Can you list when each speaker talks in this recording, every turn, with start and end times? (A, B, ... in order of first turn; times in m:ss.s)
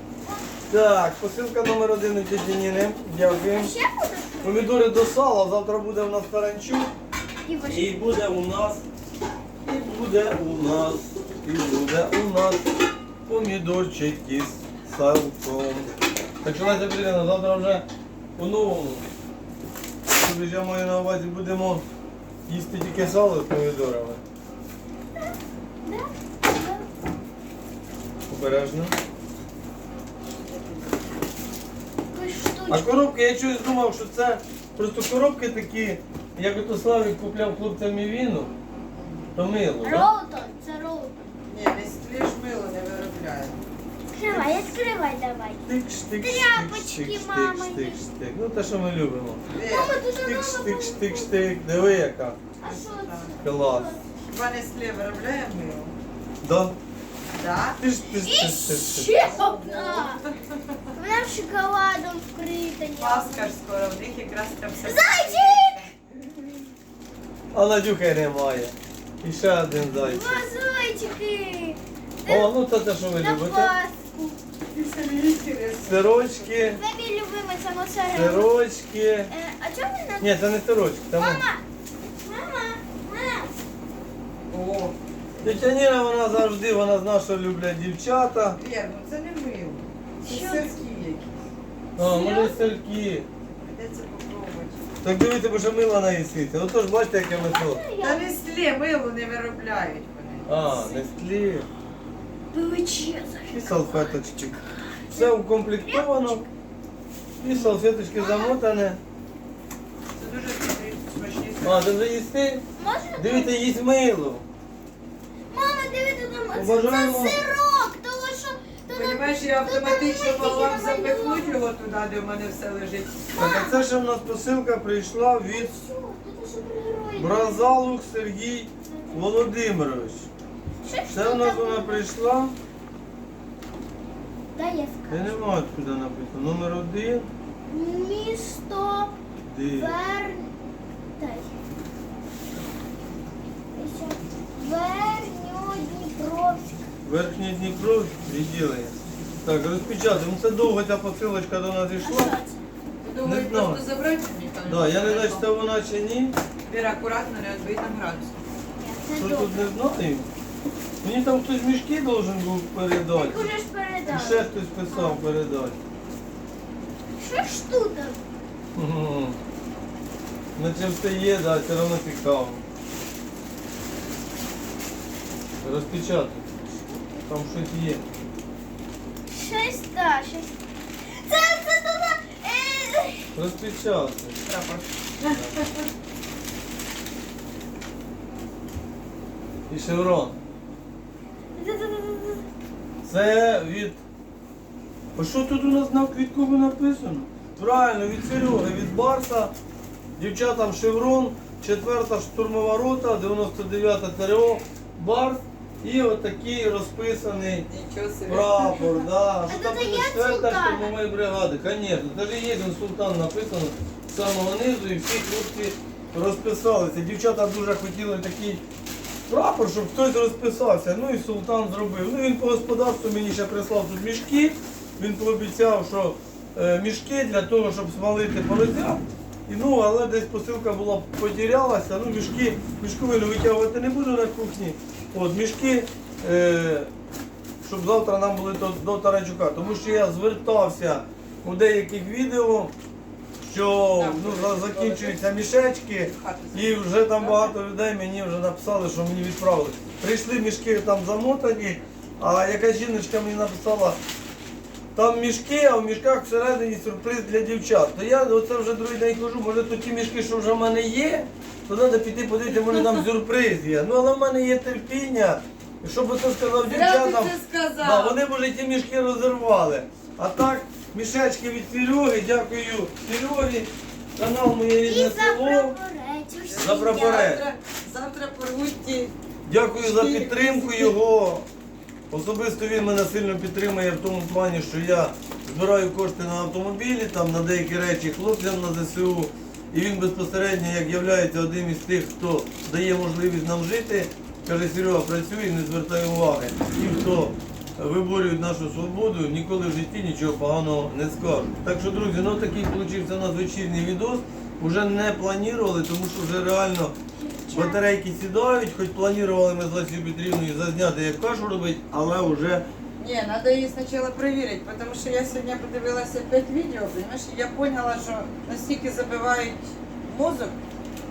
0:00.7-0:03.7 A
0:03.2-0:04.9 B
0:04.4-0:06.9 A
0:07.4-0:08.2 B
0:07.6-0:08.8 A
0:09.6-0:12.7 A
0:13.3-0:15.9 A
0:16.4-0:17.8 A
0:18.4-0:19.0 A
0:20.1-0:21.8 A
0:22.5-0:24.2 A
0:25.2-0:26.9 B
0:28.3-0:28.9 A
0:30.4-0:30.8 C
0:32.1-0:32.9 B
0:32.7-0:38.5 A
0:38.9-0:39.3 C
0:39.3-0:40.1 A
0:39.8-0:41.3 B
0:41.5-0:43.6 C
0:44.1-0:45.6 B
0:45.6-0:49.4 A
0:46.2-0:48.0 B
0:49.5-0:50.0 C
0:49.6-0:51.4 B
0:50.2-0:52.4 A
0:51.7-0:52.1 C
0:52.6-0:54.0 B
0:52.6-0:53.4 C
0:53.4-0:54.0 A
0:54.3-0:56.0 C
0:56.4-0:56.7 A
0:57.3-0:57.8 C
0:57.8-0:59.1 A
0:58.1-1:00.2 B
0:59.2-1:00.8 C
1:00.9-1:03.5 B
1:03.0-1:05.9 C
1:04.8-1:05.8 B
1:07.5-1:10.4 A
1:10.0-1:12.5 B
1:12.3-1:13.7 A
1:13.1-1:14.4 B
1:14.7-1:16.6 C
1:15.9-1:16.8 A
1:16.7-1:18.5 B
1:18.1-1:19.3 A
1:19.3-1:20.3 B
1:20.2-1:21.4 A
1:21.1-1:21.6 B
1:22.2-1:23.5 B
1:24.5-1:25.7 C
1:25.4-1:28.6 A
1:28.6-1:31.4 C
1:30.2-1:30.7 B
1:32.0-1:33.3 A
1:32.0-1:32.6 B
1:33.5-1:34.9 C
1:35.0-1:37.8 A
1:37.3-1:38.4 B
1:38.0-1:40.6 C
1:40.5-1:41.7 A
1:40.6-1:41.0 B
1:42.5-1:43.9 B
1:43.5-1:46.5 A
1:45.0-1:46.1 B
1:47.4-1:49.0 A
1:47.4-1:47.7 C
1:48.1-1:48.6 B
1:50.2-1:52.0 C
1:51.6-1:52.6 A
1:52.8-1:53.6 B
1:53.2-1:54.4 A
1:55.5-2:01.6 B
1:56.5-1:57.4 A
1:58.9-2:03.3 C
2:03.3-2:03.8 B
2:03.4-2:05.7 A
2:05.5-2:07.7 B
2:07.2-2:10.3 A
2:08.9-2:09.4 B
2:10.8-2:12.0 B
2:11.1-2:12.6 A
2:14.5-2:15.4 B
2:15.1-2:17.3 A
2:17.7-2:19.2 B
2:19.4-2:20.0 A
2:19.7-2:20.5 B
2:21.2-2:21.5 B
2:23.7-2:26.8 B
2:27.0-2:32.4 A
2:32.0-2:32.6 B
2:33.0-2:35.5 C
2:33.2-2:33.8 A
2:34.6-2:36.4 A
2:36.6-2:38.4 C
2:38.8-2:39.7 B
2:39.1-2:40.3 A
2:41.0-2:43.5 A
2:43.1-2:45.2 B
2:44.1-2:45.8 A
2:47.2-2:48.2 B
2:48.7-2:49.4 A
2:50.6-2:52.6 A
2:55.6-2:56.4 A
2:56.7-2:57.2 B
2:57.3-2:58.0 A
2:59.3-3:00.5 B
3:01.0-3:03.3 B
3:03.3-3:04.4 A
3:04.4-3:05.8 C
3:09.7-3:10.4 A
3:11.6-3:12.4 B
3:13.0-3:14.0 A
3:15.2-3:19.5 A
3:20.2-3:27.7 A
3:27.6-3:29.0 C
3:28.3-3:38.6 A
3:29.5-3:30.9 B
3:39.3-3:56.9 A
3:57.6-4:02.7 A
4:03.4-4:14.0 A
4:03.6-4:07.6 C
4:14.9-4:35.8 A
4:22.6-4:23.0 C
4:26.6-4:28.2 C
4:34.8-4:37.3 B
4:36.4-4:39.1 C
4:36.6-4:37.4 A
4:39.4-4:41.4 A
4:39.7-4:41.0 C
4:42.1-5:06.9 A
5:07.2-5:07.8 B
5:07.5-5:12.6 A
5:13.0-5:20.6 C